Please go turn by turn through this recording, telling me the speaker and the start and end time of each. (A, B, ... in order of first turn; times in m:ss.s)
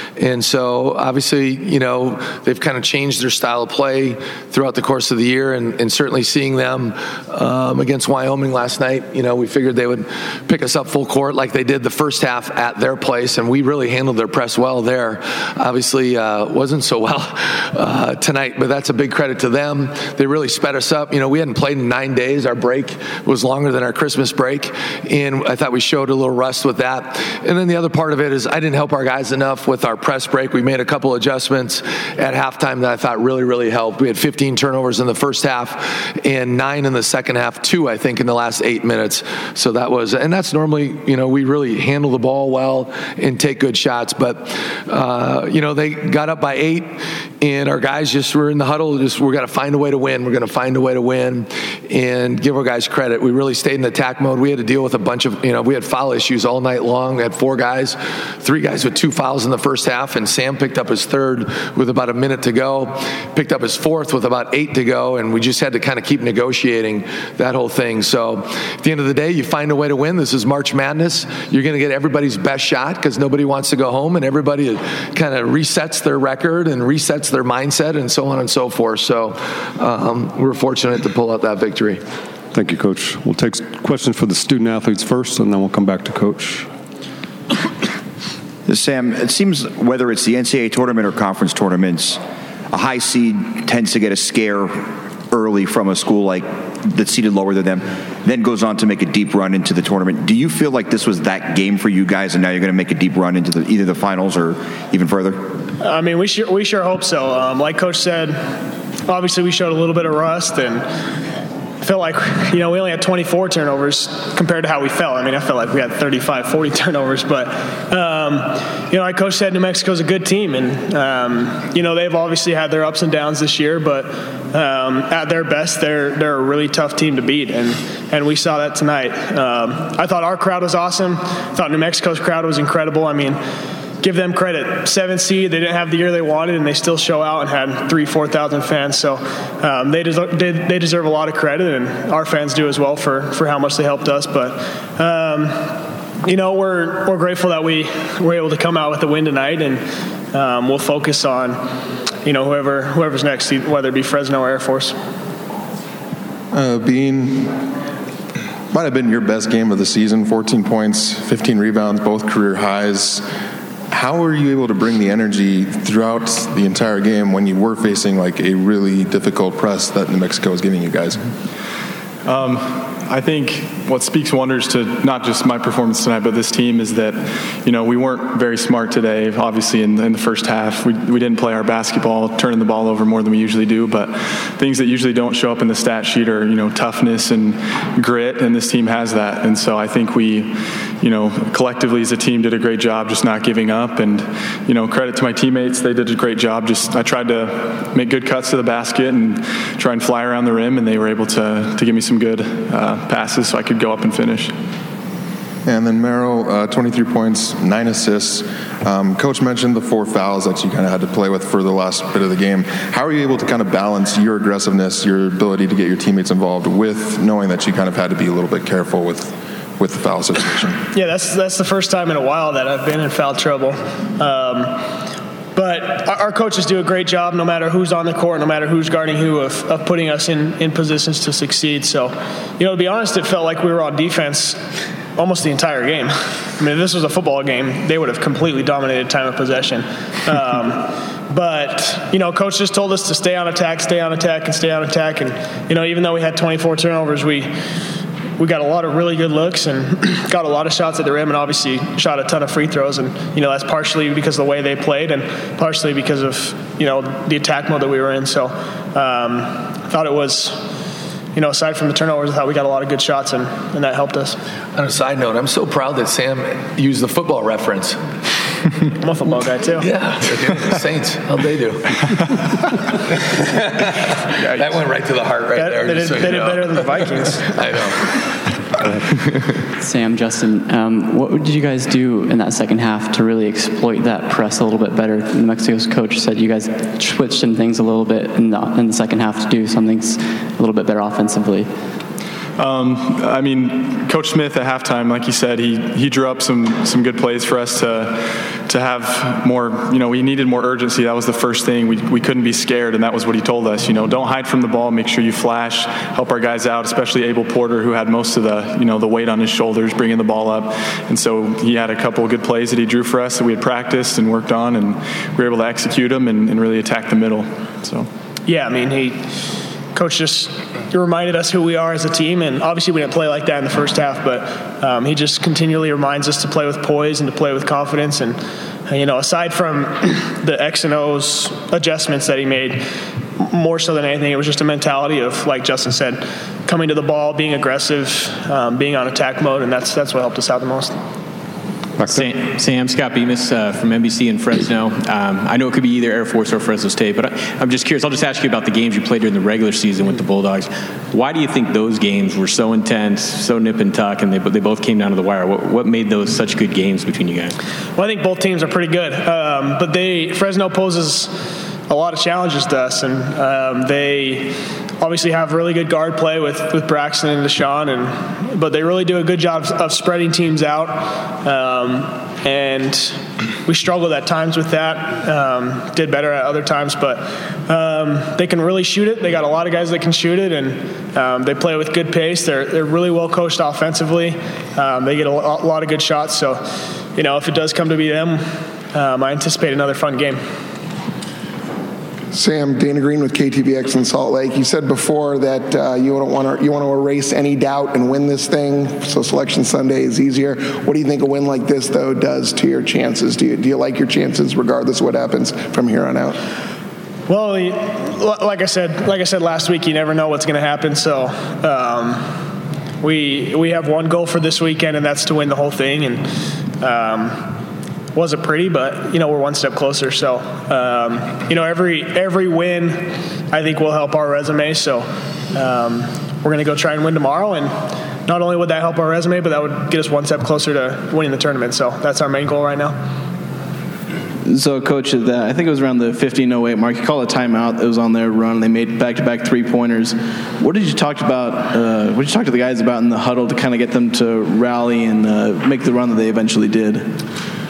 0:00.2-1:22.0 A
1:22.5-1:26.7 B
1:28.6-1:32.2 C
1:32.7-1:45.5 C
1:45.8-1:48.4 D
1:49.1-1:50.8 D
1:51.8-2:13.4 D
2:14.0-2:25.7 D
2:26.2-2:31.6 D
2:32.2-2:35.0 D
2:36.5-2:37.6 E
2:38.7-2:43.2 E
2:43.9-2:51.2 E
2:52.2-3:24.5 F
3:25.6-3:40.8 E
3:40.9-3:44.8 D
3:45.5-3:54.6 D
3:55.2-4:07.5 D
4:08.4-4:20.6 D
4:21.3-4:24.4 D
4:24.7-4:28.0 A
4:29.0-4:29.9 D
4:29.8-4:32.0 A
4:32.9-4:38.1 A
4:35.6-4:37.4 D
4:39.8-4:51.7 G
4:52.6-5:18.1 F
5:18.5-5:19.2 D
5:19.9-5:32.8 D
5:33.4-5:41.0 D
5:42.0-5:42.3 B
5:42.1-5:57.6 H
5:58.0-6:01.3 D
6:01.9-6:26.6 D
6:27.2-6:30.4 D
6:32.3-6:46.4 I
6:47.3-6:52.3 D
6:53.0-6:56.2 D
6:56.8-6:57.5 D
6:58.1-7:07.7 D
7:08.2-7:13.0 D
7:14.4-7:27.2 J